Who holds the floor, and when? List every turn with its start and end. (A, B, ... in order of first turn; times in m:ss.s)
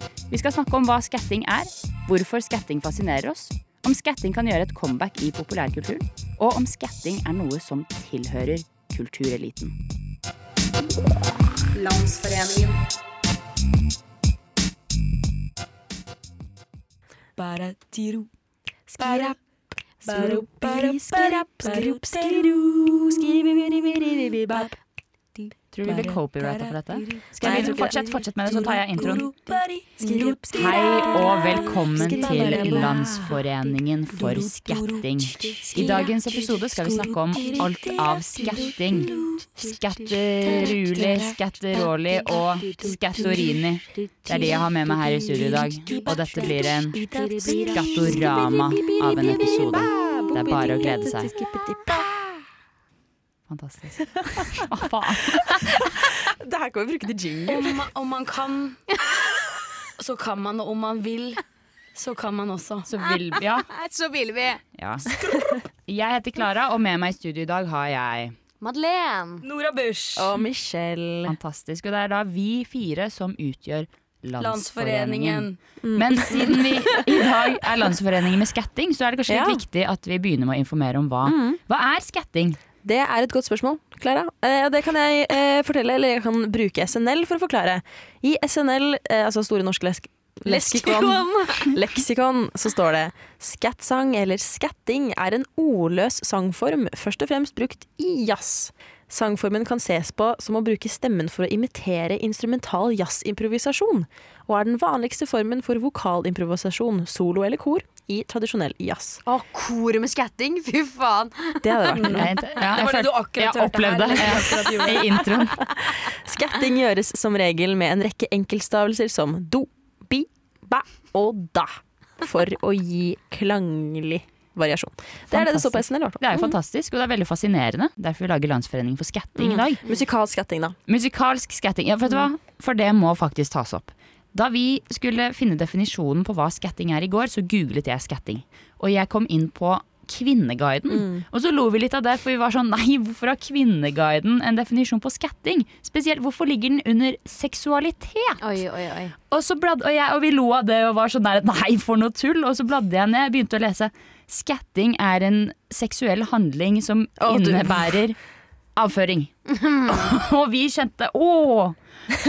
0:00.3-0:09.7 A
0:11.7-0:12.8 A
0:17.4-0:18.3 B
0:18.9-0:19.3 C
0:19.0-0:19.4 B
0:20.0-0:24.7 C
0:20.0-0:24.7 B
0:25.7-0:29.3 A
0:25.8-0:33.4 B
0:27.4-0:28.0 C
0:30.0-0:33.1 C
0:30.6-0:47.0 A
0:34.1-0:43.5 B
0:44.2-0:48.5 B
0:47.0-0:52.1 C
0:47.6-0:51.3 A
0:53.5-0:55.6 A
0:55.5-0:57.7 C
0:57.5-0:58.8 B
1:00.0-1:01.4 B
1:01.9-1:02.9 B
1:02.9-1:03.7 A
1:03.4-1:04.6 D
1:04.8-1:05.1 A
1:05.9-1:08.4 A
1:08.6-1:09.4 D
1:09.4-1:10.3 B
1:10.2-1:11.4 C
1:11.2-1:22.6 A
1:14.4-1:15.6 B
1:15.8-1:16.9 C
1:19.3-1:19.6 C
1:21.2-1:21.6 C
1:22.8-1:49.2 C
1:30.5-1:31.7 D
1:49.2-1:51.9 D
1:51.6-1:52.3 C
1:51.9-1:55.3 B
1:52.2-1:55.6 A
1:55.6-2:06.5 C
2:05.3-2:09.8 A
2:09.4-2:10.8 C
2:10.9-2:28.6 A
2:20.9-2:21.2 C
2:28.4-2:29.1 D
2:29.3-2:38.2 A
2:37.2-2:37.9 C
2:38.8-2:39.3 A
2:39.8-2:41.8 A